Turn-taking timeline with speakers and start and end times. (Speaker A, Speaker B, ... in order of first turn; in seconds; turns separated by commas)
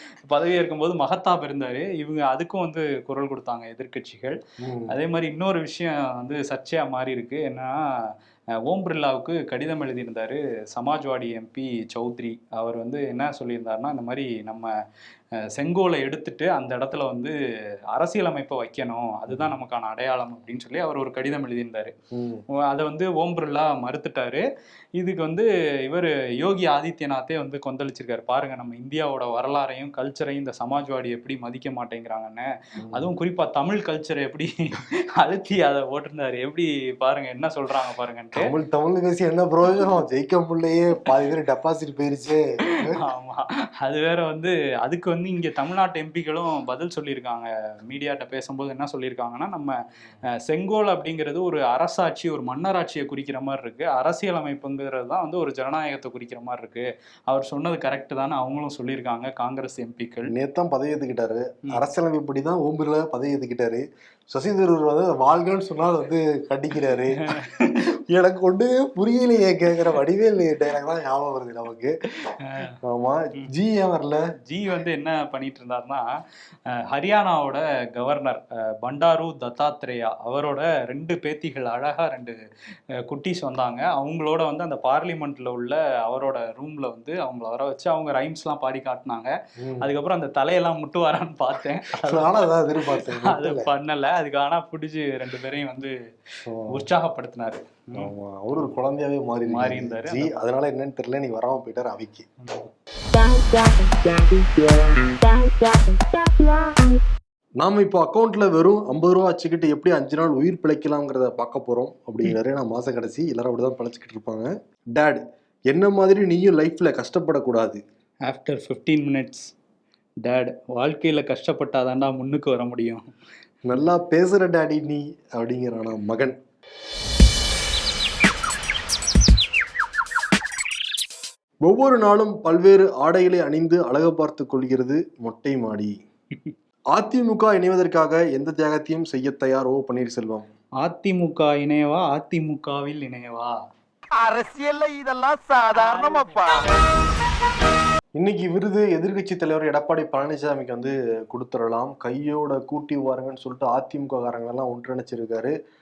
Speaker A: 0.2-4.4, Speaker B: 4.6-5.0, Speaker A: 4.9-8.1, Speaker A: 8.7-14.7, Speaker A: 15.5-17.3, Speaker A: 17.9-21.9, Speaker B: 19.3-19.5, Speaker B: 22.1-22.4, Speaker A: 22.7-24.4, Speaker A: 25.0-38.5, Speaker B: 32.8-33.1, Speaker B: 38.3-43.0, Speaker A: 43.0-49.7, Speaker A: 50.4-60.3, Speaker B: 60.3-67.3, Speaker A: 66.9-67.8, Speaker B: 68.1-71.9, Speaker A: 72.4-72.8, Speaker B: 72.8-74.2, Speaker A: 74.5-76.0, Speaker A: 76.8-82.3, Speaker A: 83.1-95.9, Speaker B: 89.6-89.9, Speaker B: 92.0-93.7, Speaker B: 96.5-96.7, Speaker A: 96.7-98.7, Speaker B: 98.0-102.2, Speaker A: 99.5-100.4, Speaker A: 102.4-102.7, Speaker C: 103.6-104.2, Speaker B: 107.6-117.8, Speaker A: 118.3-119.5, Speaker A: 120.2-123.0, Speaker B: 123.7-126.3, Speaker B: 131.6-135.9, Speaker B: 136.9-140.4, Speaker A: 140.8-143.5, Speaker C: 144.1-146.7, Speaker A: 146.0-146.3, Speaker B: 148.2-155.5